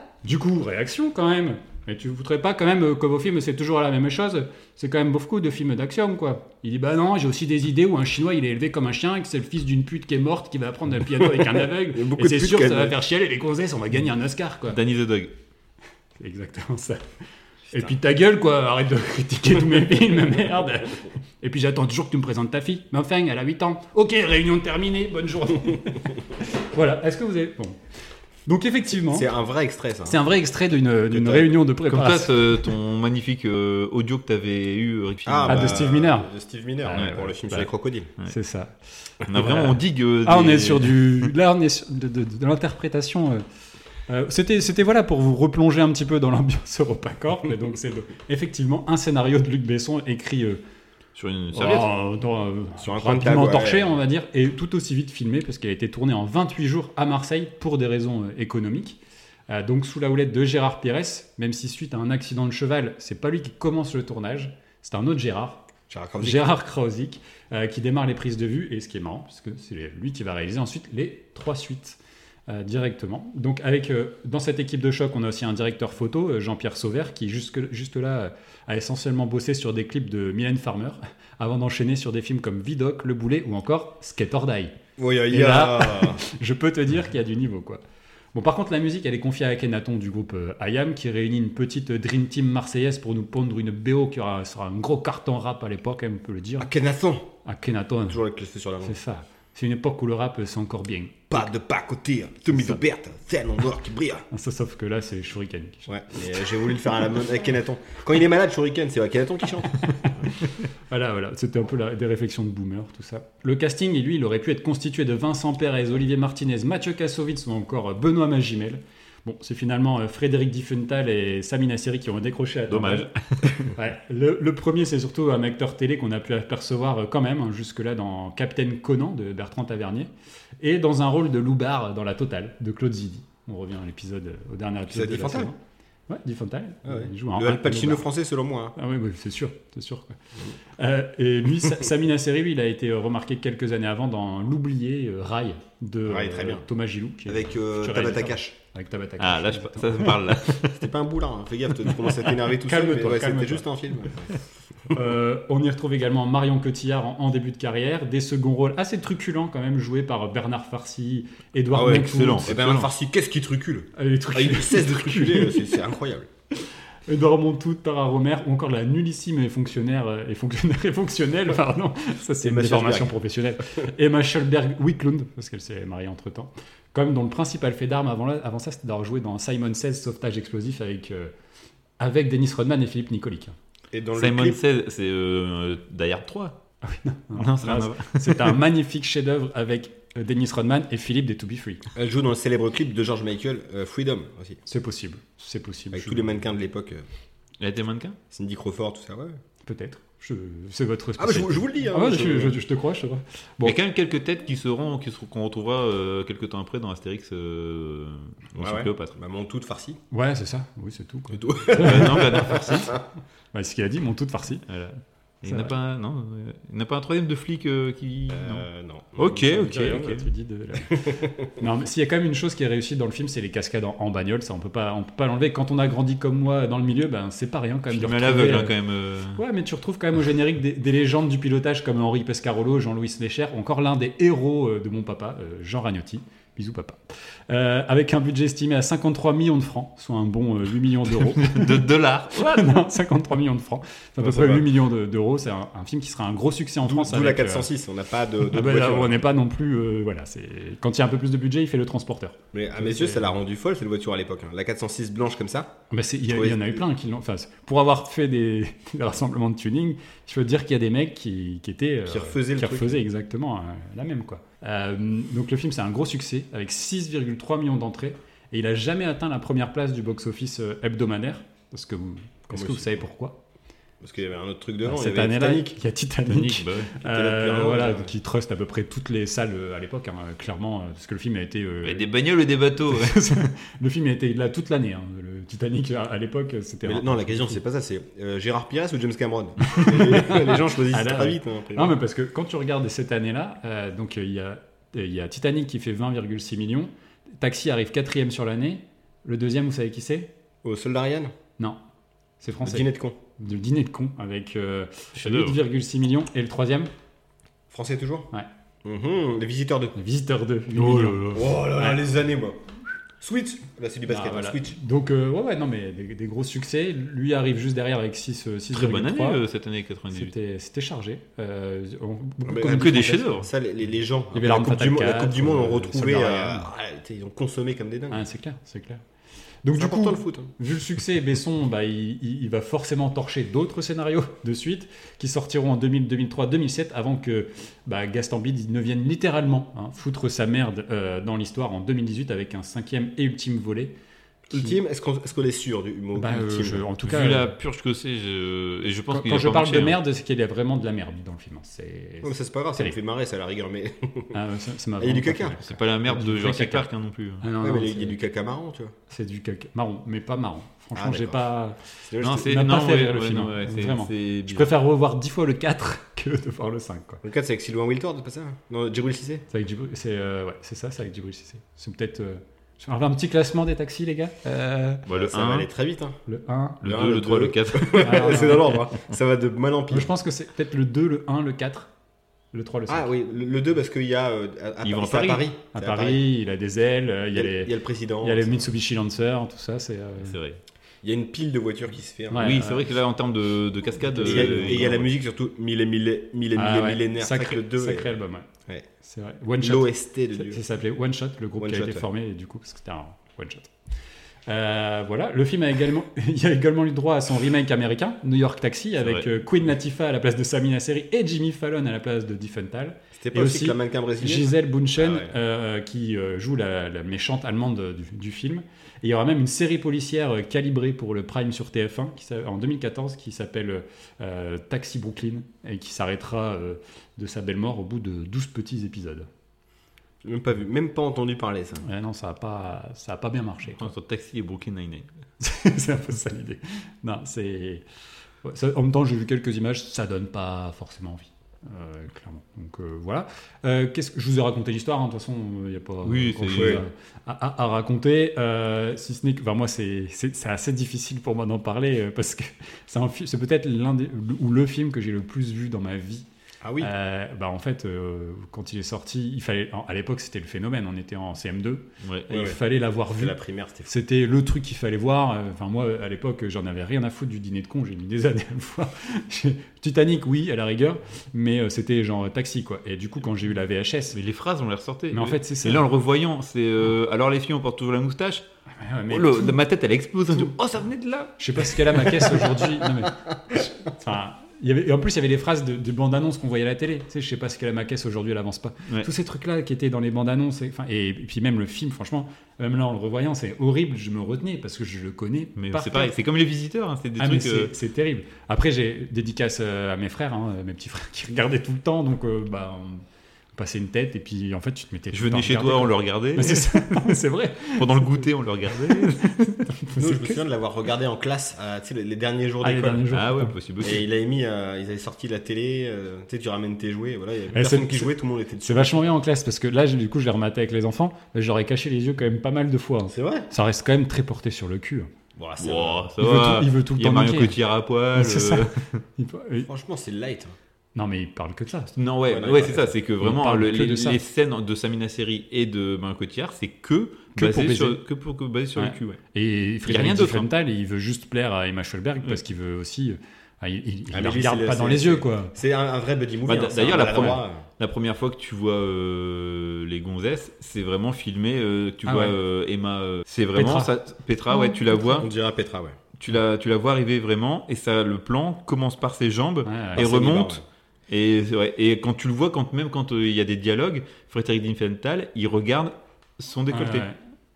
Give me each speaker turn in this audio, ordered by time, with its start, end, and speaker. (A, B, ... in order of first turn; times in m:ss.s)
0:00.2-0:14.8 A
0:11.8-0:12.9 B
0:14.7-0:15.3 C
0:16.2-0:17.0 A
0:17.7-0:27.8 A
0:28.4-0:29.3 A
0:29.1-0:30.2 B
0:30.1-0:32.5 A
0:31.1-0:31.5 B
0:31.9-0:35.8 C
0:35.2-0:38.1 B
0:35.4-0:36.3 A
0:36.8-0:37.7 A
0:38.2-0:43.4 A
0:39.2-0:41.3 C
0:44.1-0:50.6 A
0:51.1-0:51.9 C
0:51.5-1:05.6 A
0:52.8-0:53.9 B
1:05.9-1:06.5 B
1:06.2-1:24.8 A
1:25.0-1:26.2 B
1:25.3-1:27.8 A
1:28.3-1:36.7 A
1:36.6-1:37.3 B
1:37.4-1:38.2 A
1:38.1-1:39.0 B
1:38.8-1:41.4 A
1:41.3-1:44.2 B
1:42.4-1:42.8 A
1:44.3-1:46.7 A
1:45.9-1:49.8 B
1:49.8-1:50.1 A
1:50.9-2:15.6 A
2:02.7-2:03.7 C
2:14.9-2:15.5 B
2:16.1-2:18.1 A
2:16.8-2:18.8 B
2:18.8-2:20.2 A
2:20.8-2:30.2 A
2:26.0-2:26.6 B
2:27.2-2:28.5 B
2:29.2-2:30.8 C
2:30.7-2:34.4 B
2:32.5-2:33.6 A
2:34.9-2:42.5 A
2:41.7-2:46.3 B
2:41.8-2:42.9 C
2:44.0-2:45.7 A
2:47.1-3:01.3 A
2:52.4-2:53.1 B
3:02.0-3:03.5 A
3:03.9-3:04.6 B
3:04.1-3:06.6 C
3:06.8-3:11.9 A
3:07.3-3:08.6 C
3:12.0-3:14.6 B
3:14.7-3:16.3 A
3:15.9-3:17.0 B
3:17.6-3:18.2 C
3:18.3-3:19.4 B
3:19.6-3:23.8 A
3:21.2-3:22.6 B
3:23.6-3:29.1 C
3:28.5-3:30.0 B
3:30.1-3:32.9 A
3:31.3-3:33.0 B
3:31.8-3:32.9 C
3:33.5-3:34.6 A
3:34.7-3:38.6 C
3:35.4-3:35.7 A
3:38.3-3:40.1 B
3:39.2-3:40.2 C
3:39.3-3:48.8 A
3:40.9-3:41.5 B
3:47.9-3:49.4 C
3:49.3-4:07.7 A
4:01.2-4:02.7 C
4:04.2-4:04.7 B
4:06.8-4:09.1 B
4:08.4-4:13.3 A
4:12.5-4:15.8 B
4:15.9-4:33.4 A
4:16.3-4:16.8 B
4:22.1-4:23.0 B
4:32.5-4:33.0 B
4:34.0-4:35.8 B
4:34.8-4:42.1 A
4:36.3-4:36.9 C
4:37.0-4:38.1 B
4:41.8-4:43.4 C
4:42.8-4:47.6 A
4:46.8-4:52.0 B
4:49.7-5:00.3 A
5:00.6-5:01.3 B
5:02.4-5:06.9 A
5:02.6-5:03.2 B
5:05.2-5:05.6 C
5:07.7-5:08.3 B
5:08.8-5:10.0 B
5:10.0-5:12.0 A
5:10.7-5:11.4 C
5:11.3-5:12.6 B
5:13.2-5:14.8 B
5:14.1-5:19.4 A
5:18.7-5:20.3 C
5:20.1-5:23.4 A
5:22.4-5:28.2 B
5:22.6-5:23.5 C
5:24.3-5:26.7 A
5:28.1-5:29.0 A
5:29.6-5:43.9 A
5:29.7-5:30.5 B
5:44.5-5:44.8 A
5:44.5-5:46.8 B
5:46.2-5:47.5 A
5:47.0-5:50.0 C
5:49.1-5:52.9 A
5:52.2-5:54.4 B
5:54.3-5:56.9 A
5:55.0-5:55.6 B
5:55.6-5:57.4 C
5:57.4-5:58.2 A
5:57.6-5:58.9 B
5:59.1-6:07.2 A
6:00.9-6:01.4 B
6:02.0-6:02.5 B
6:02.2-6:04.7 C
6:07.2-6:09.4 B
6:09.5-6:15.0 A
6:15.1-6:15.7 C
6:15.1-6:16.2 B
6:16.3-6:16.8 A
6:16.8-6:18.5 C
6:16.8-6:20.1 B
6:18.0-6:18.8 A
6:19.9-6:21.9 A
6:22.5-6:23.1 A
6:22.9-6:26.2 B
6:24.8-6:25.5 C
6:25.7-6:30.4 A
6:27.3-6:28.7 B
6:30.2-6:30.6 C
6:31.0-6:32.7 B
6:32.3-6:32.9 A
6:32.4-6:35.1 C
6:34.1-6:34.9 A
6:34.2-6:38.1 B
6:36.6-6:38.5 A
6:39.0-6:43.7 A
6:39.6-6:40.6 B
6:41.6-6:42.0 B
6:44.5-7:09.3 A
6:49.0-6:49.2 C
6:53.2-6:55.3 B
7:10.2-7:11.8 B
7:11.8-7:13.9 A
7:13.8-7:15.1 C
7:15.4-7:17.8 A
7:18.4-7:36.3 A
7:26.0-7:26.8 C
7:26.5-7:26.8 B
7:36.6-7:36.9 B
7:36.8-7:54.2 A
7:42.0-7:42.3 C
7:42.3-7:42.6 B
7:43.1-7:43.9 B
7:54.1-7:58.4 C
7:55.1-7:55.8 A
7:58.8-7:59.6 A
7:59.1-8:01.3 C
8:01.4-8:16.1 A
8:15.6-8:17.7 C
8:17.2-8:23.0 A
8:23.6-8:28.2 A
8:25.1-8:26.7 C
8:27.8-8:29.3 C
8:28.7-8:30.4 A
8:29.9-8:33.0 B
8:32.6-8:33.6 A
8:33.1-8:34.0 C
8:33.8-8:39.1 B
8:37.5-8:45.1 A
8:43.1-8:43.5 B
8:45.4-8:46.1 B
8:45.6-8:49.0 C
8:46.2-8:47.6 A
8:48.1-8:49.7 A
8:49.6-8:50.5 B
8:51.0-8:51.9 A
8:52.0-8:59.2 C
8:52.3-8:53.0 B
8:53.2-8:54.2 A
8:57.3-8:58.0 A
8:58.8-9:05.5 A
8:59.8-9:00.5 C
9:04.1-9:07.6 B
9:06.4-9:15.3 C
9:12.0-9:12.4 A
9:13.5-9:13.9 A
9:14.5-9:15.0 A
9:15.2-9:16.0 B
9:16.2-9:27.1 C
9:19.6-9:20.0 A
9:20.0-9:20.6 B
9:26.7-9:27.2 A